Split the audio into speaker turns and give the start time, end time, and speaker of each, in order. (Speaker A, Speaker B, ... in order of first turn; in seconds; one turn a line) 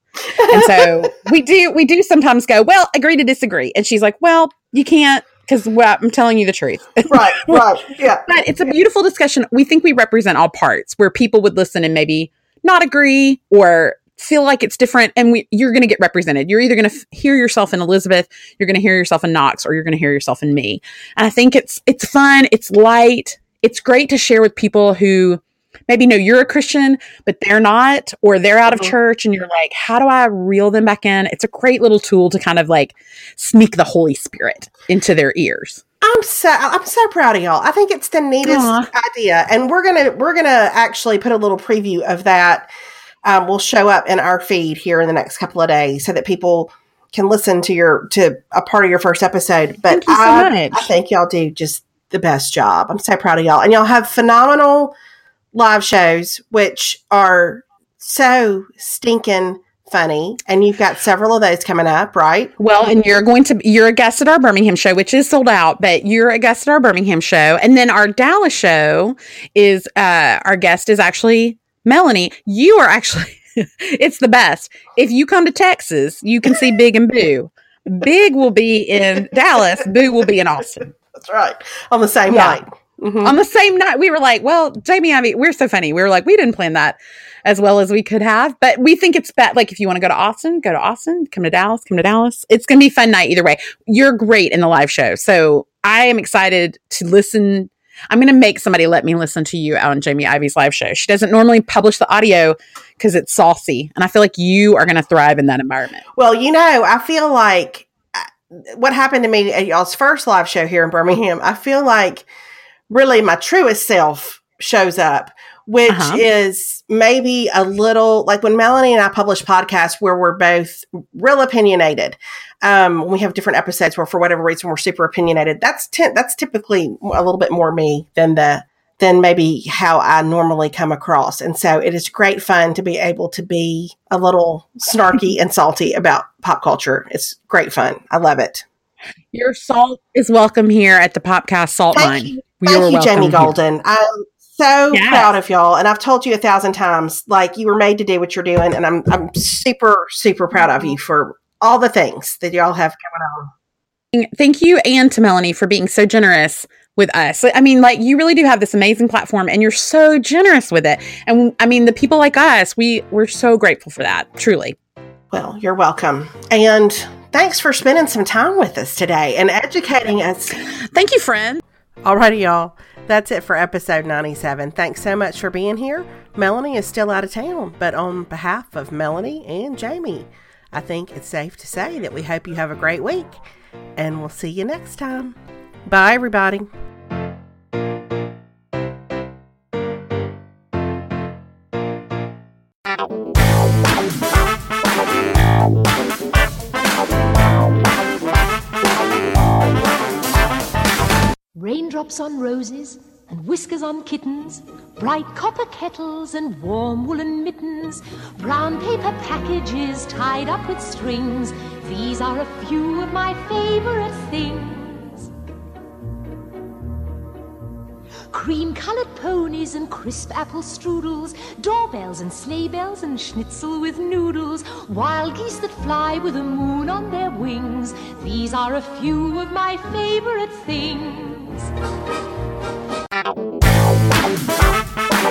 Speaker A: 0.4-0.9
Speaker B: 0.5-7.6
Speaker A: 7.1-8.2
Speaker B: 8.3-35.8
Speaker A: 28.6-28.9
Speaker A: 36.0-42.7
Speaker B: 38.4-38.9
Speaker A: 43.2-54.9
Speaker B: 49.9-50.9
Speaker A: 55.5-62.5
Speaker B: 62.6-80.9
Speaker A: 81.1-83.4
Speaker B: 82.3-82.6
Speaker B: 83.2-106.0
Speaker A: 106.1-112.2
Speaker A: 112.9-138.6
Speaker B: 115.9-116.2
Speaker B: 139.3-143.5
Speaker A: 141.9-153.5
Speaker B: 144.9-145.3
Speaker B: 154.1-164.8
Speaker A: 165.3-170.6
Speaker B: 170.8-171.6
Speaker A: 172.0-183.4
Speaker A: 183.9-186.7
Speaker C: 201.5-215.3
Speaker C: 218.3-231.7